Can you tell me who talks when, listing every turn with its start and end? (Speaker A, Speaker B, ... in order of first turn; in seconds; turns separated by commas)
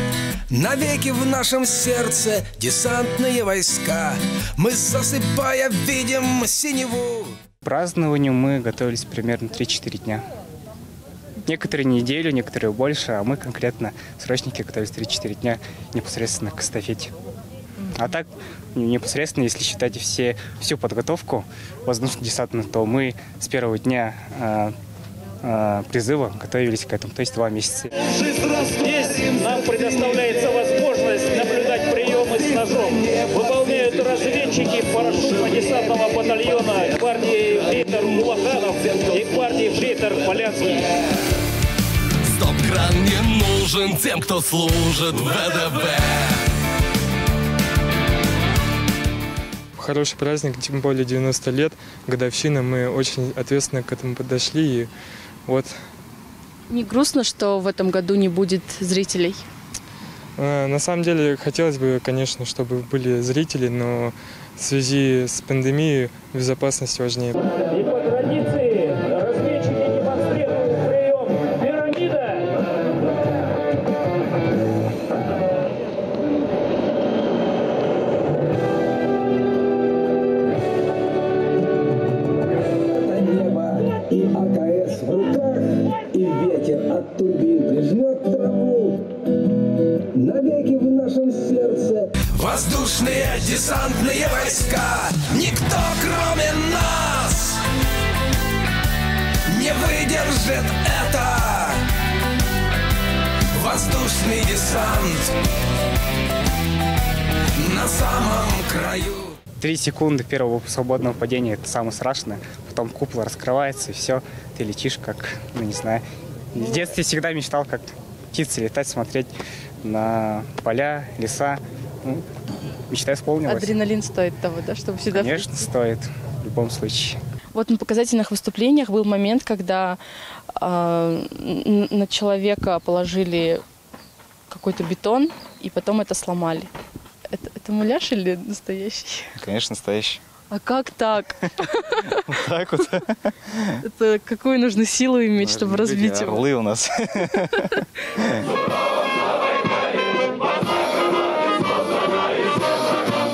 Speaker A: 0.5-7.3, Speaker B: 7.6-10.2, Speaker B: 11.4-17.1, Speaker B: 17.9-24.7, Speaker B: 25.4-28.0, Speaker C: 28.2-40.9, Speaker D: 42.3-46.3, Speaker E: 49.8-54.9, Speaker E: 55.5-55.8, Speaker F: 56.7-59.4, Speaker E: 60.4-67.4, Speaker C: 67.7-72.5, Speaker A: 82.9-89.1, Speaker A: 90.1-97.6, Speaker A: 99.5-101.8, Speaker A: 103.5-105.3, Speaker A: 107.6-109.3, Speaker B: 109.6-116.0, Speaker B: 116.5-119.3, Speaker B: 119.8-122.2, Speaker B: 122.9-123.8, Speaker F: 123.5-125.6, Speaker B: 125.1-127.2, Speaker F: 127.5-130.0, Speaker F: 130.6-133.6, Speaker F: 134.5-136.7, Speaker F: 137.3-139.3, Speaker G: 139.3-140.2, Speaker F: 140.5-142.2, Speaker G: 142.1-143.6, Speaker F: 143.8-146.4, Speaker G: 145.4-147.8